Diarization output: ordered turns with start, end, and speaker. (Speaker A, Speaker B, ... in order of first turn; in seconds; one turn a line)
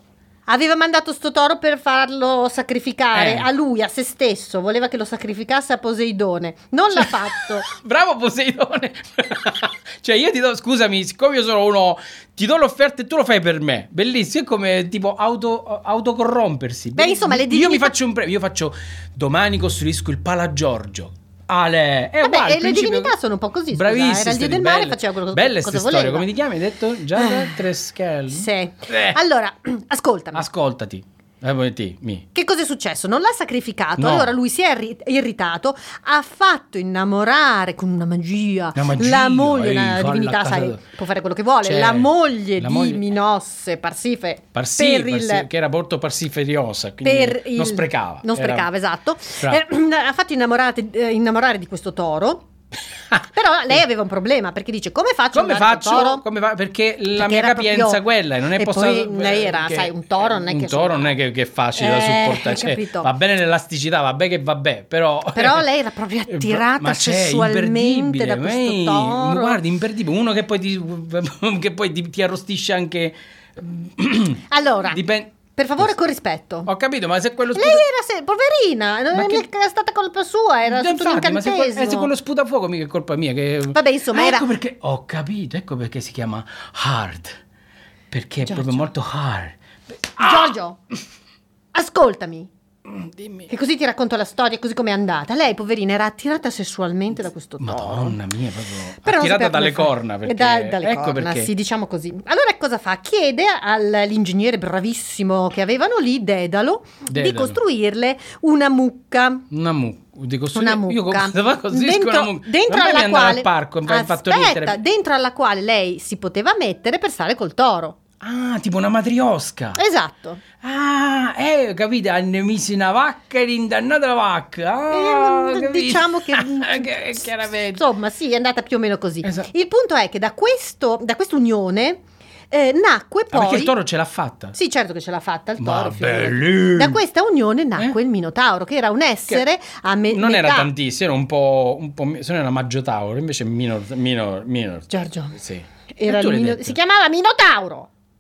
Speaker A: 0.5-7.7
Speaker B: 3.1-3.5
Speaker B: 7.0-23.1
Speaker A: 16.9-17.9
Speaker A: 22.2-26.3
Speaker B: 23.7-29.2
Speaker A: 27.1-27.6
Speaker A: 28.3-30.4
Speaker B: 30.3-32.2
Speaker A: 32.3-45.5
Speaker B: 34.0-34.4
Speaker B: 38.8-40.8
Speaker B: 41.6-43.0
Speaker B: 44.5-48.7
Speaker A: 47.0-52.5
Speaker A: 53.3-56.2
Speaker B: 55.3-65.7
Speaker A: 57.1-61.1
Speaker A: 61.8-63.1
Speaker A: 65.3-69.6
Speaker B: 66.3-75.9
Speaker A: 74.5-75.0
Speaker A: 75.5-76.7
Speaker B: 76.7-77.8
Speaker A: 77.5-82.1
Speaker B: 79.1-79.5
Speaker B: 80.7-87.4
Speaker A: 83.7-84.5
Speaker B: 88.1-89.6
Speaker A: 88.5-88.9
Speaker B: 90.1-90.6
Speaker A: 90.2-90.8
Speaker A: 91.7-92.5
Speaker B: 92.9-93.5
Speaker A: 93.5-98.2
Speaker B: 97.6-101.5
Speaker A: 99.0-109.5
Speaker B: 107.1-107.6
Speaker B: 109.5-114.8
Speaker A: 110.5-118.0
Speaker B: 118.2-119.8
Speaker A: 119.8-120.4
Speaker B: 120.6-127.8
Speaker A: 124.9-133.7
Speaker B: 129.2-129.5
Speaker B: 133.3-134.6
Speaker A: 134.5-140.7
Speaker B: 135.6-137.0
Speaker B: 140.1-146.8
Speaker A: 144.9-145.4
Speaker A: 145.9-147.9